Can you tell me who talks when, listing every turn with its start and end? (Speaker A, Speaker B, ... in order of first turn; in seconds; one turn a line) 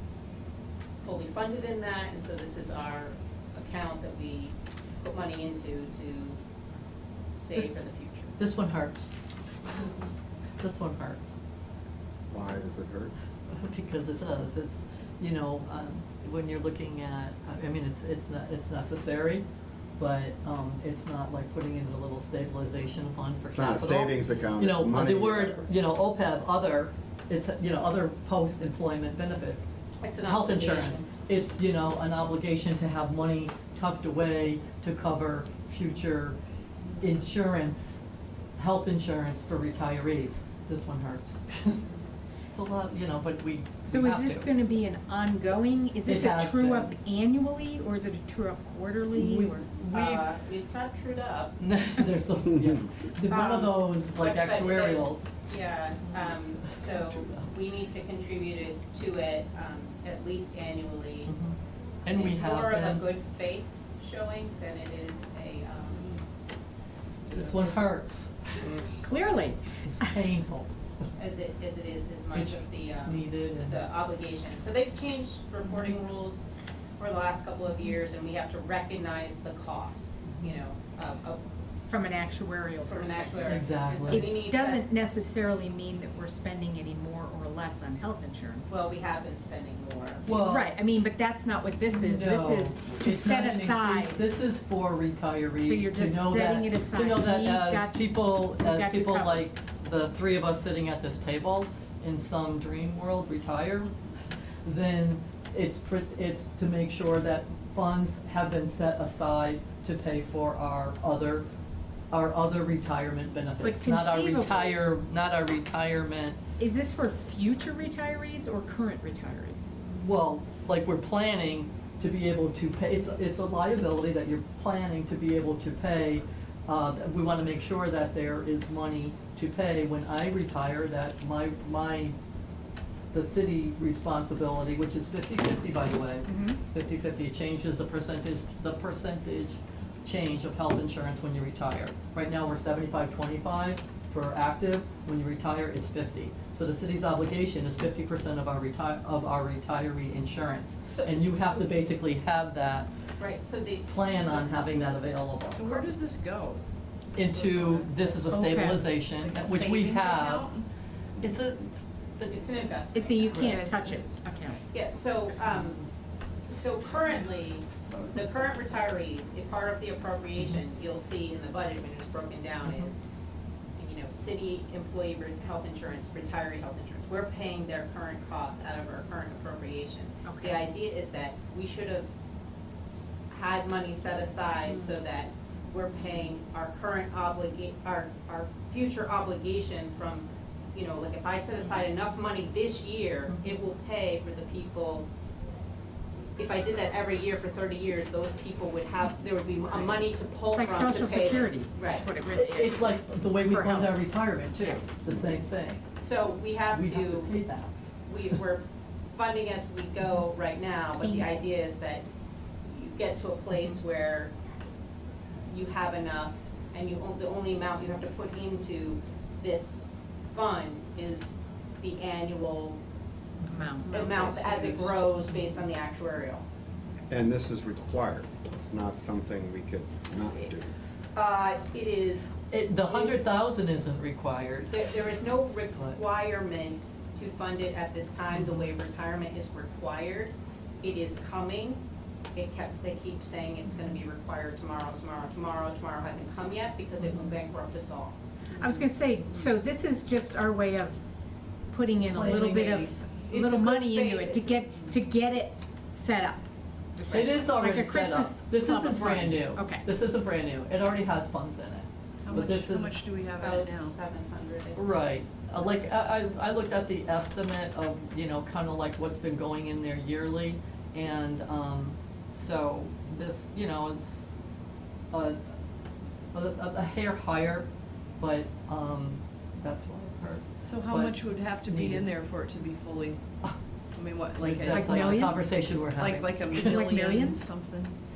Speaker A: 1.0-6.4
Speaker A: 7.4-8.3
Speaker B: 8.4-9.1
Speaker B: 10.6-11.4
Speaker C: 12.3-13.1
Speaker B: 13.5-19.4
Speaker B: 20.0-29.6
Speaker C: 23.5-25.6
Speaker A: 30.0-31.1
Speaker B: 30.2-36.4
Speaker B: 37.0-38.0
Speaker B: 38.6-41.8
Speaker B: 42.5-44.5
Speaker D: 43.9-49.7
Speaker B: 46.0-46.9
Speaker B: 49.1-50.3
Speaker A: 49.9-51.5
Speaker B: 51.6-55.2
Speaker A: 53.2-61.3
Speaker B: 56.1-57.5
Speaker B: 61.2-63.1
Speaker A: 62.1-66.2
Speaker B: 67.3-68.8
Speaker D: 68.8-70.1
Speaker B: 69.8-70.7
Speaker A: 71.2-76.4
Speaker B: 72.3-73.8
Speaker A: 77.0-81.4
Speaker D: 81.9-88.7
Speaker A: 82.8-84.8
Speaker B: 83.5-84.3
Speaker A: 88.7-90.3
Speaker B: 90.2-90.8
Speaker D: 90.4-94.2
Speaker B: 91.9-103.9
Speaker D: 95.6-99.5
Speaker B: 104.6-111.4
Speaker B: 112.1-116.4
Speaker D: 113.6-114.8
Speaker D: 116.6-119.7
Speaker B: 119.8-132.1
Speaker B: 133.1-152.9
Speaker D: 136.3-136.6
Speaker A: 150.8-151.8
Speaker A: 153.2-154.5
Speaker B: 153.8-155.9
Speaker E: 155.5-156.6
Speaker B: 157.1-160.5
Speaker E: 157.4-157.9
Speaker D: 158.3-158.9
Speaker E: 159.3-160.7
Speaker B: 161.2-162.4
Speaker A: 162.3-163.6
Speaker D: 162.9-164.6
Speaker E: 163.4-164.1
Speaker A: 164.7-165.8
Speaker A: 166.5-173.0
Speaker A: 173.8-182.1
Speaker D: 180.2-180.6
Speaker A: 183.3-195.1
Speaker A: 196.4-202.1
Speaker D: 200.5-204.8
Speaker B: 202.3-205.9
Speaker A: 206.0-207.3
Speaker B: 206.7-207.7
Speaker A: 208.1-212.1
Speaker D: 211.0-211.3
Speaker A: 212.6-214.3
Speaker A: 215.5-222.8
Speaker D: 223.4-224.1
Speaker A: 223.8-226.4
Speaker C: 227.1-230.7
Speaker A: 231.1-232.3
Speaker B: 232.5-234.7
Speaker A: 232.9-233.2
Speaker A: 234.7-241.8
Speaker B: 235.7-236.0
Speaker B: 238.3-238.7
Speaker A: 242.3-248.2
Speaker D: 248.5-251.0
Speaker D: 251.7-259.8
Speaker B: 252.1-252.9
Speaker A: 253.3-254.6
Speaker B: 257.1-263.0
Speaker E: 262.2-263.9
Speaker A: 263.4-264.8
Speaker B: 264.7-274.2
Speaker B: 275.1-275.4
Speaker B: 276.3-277.7
Speaker B: 278.2-282.1
Speaker E: 280.7-283.2
Speaker E: 283.9-285.5
Speaker B: 284.4-286.9
Speaker D: 284.7-285.6
Speaker E: 286.0-288.0
Speaker D: 286.5-287.5